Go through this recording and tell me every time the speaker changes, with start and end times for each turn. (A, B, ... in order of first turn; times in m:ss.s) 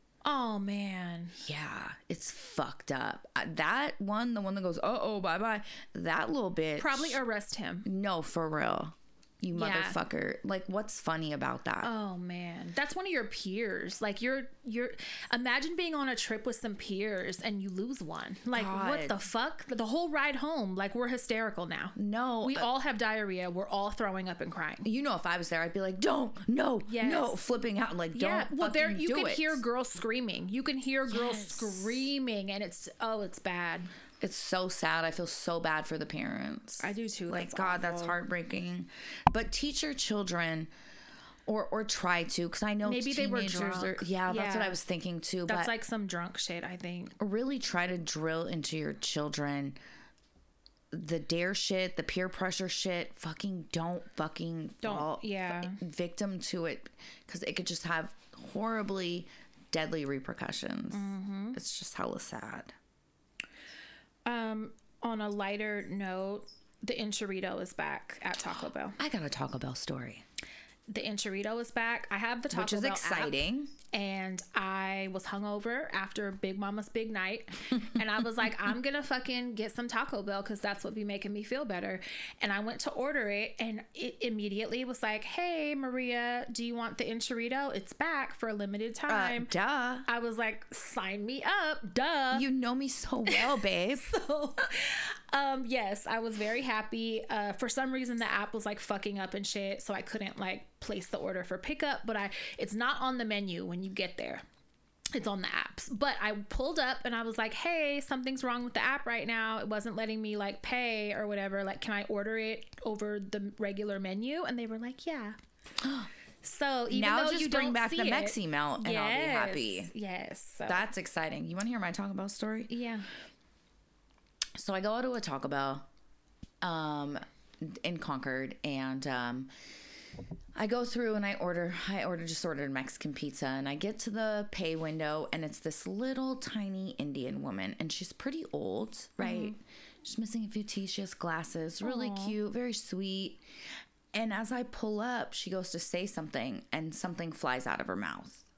0:00.2-0:01.4 A
0:01.4-0:07.2 B
0:06.8-0:07.9 A
0:07.8-0:11.9 B
0:09.5-0:10.0 A
0:11.8-0:24.9 A
0:18.5-0:19.2 B
0:22.0-0:22.7 B
0:24.8-0:29.6 B
0:26.9-0:27.4 A
0:28.1-0:33.9 A
0:31.1-0:32.0 B
0:34.2-0:40.7 B
0:36.8-0:38.2 A
0:41.5-0:45.7 B
0:42.8-0:44.8 A
0:45.4-0:47.2 A
0:47.2-0:49.8 B
0:50.9-1:02.7 B
0:54.8-0:55.8 A
1:00.9-1:01.6 A
1:04.3-1:09.0 A
1:09.0-1:10.2 B
1:10.9-1:13.4 A
1:12.5-1:13.7 B
1:13.9-1:29.5 A
1:29.1-1:30.0 B
1:30.0-1:32.4 A
1:32.3-1:34.1 B
1:33.3-1:44.4 A
1:45.1-1:55.4 A
1:55.8-1:56.1 B
1:56.4-2:00.8 A
1:56.9-1:59.9 B
2:00.7-2:02.7 B
2:02.7-2:03.1 A
2:04.6-2:05.9 B
2:06.6-2:09.5 B
2:10.6-2:23.4 B
2:19.2-2:19.6 A
2:21.8-2:22.4 A
2:24.1-2:28.4 B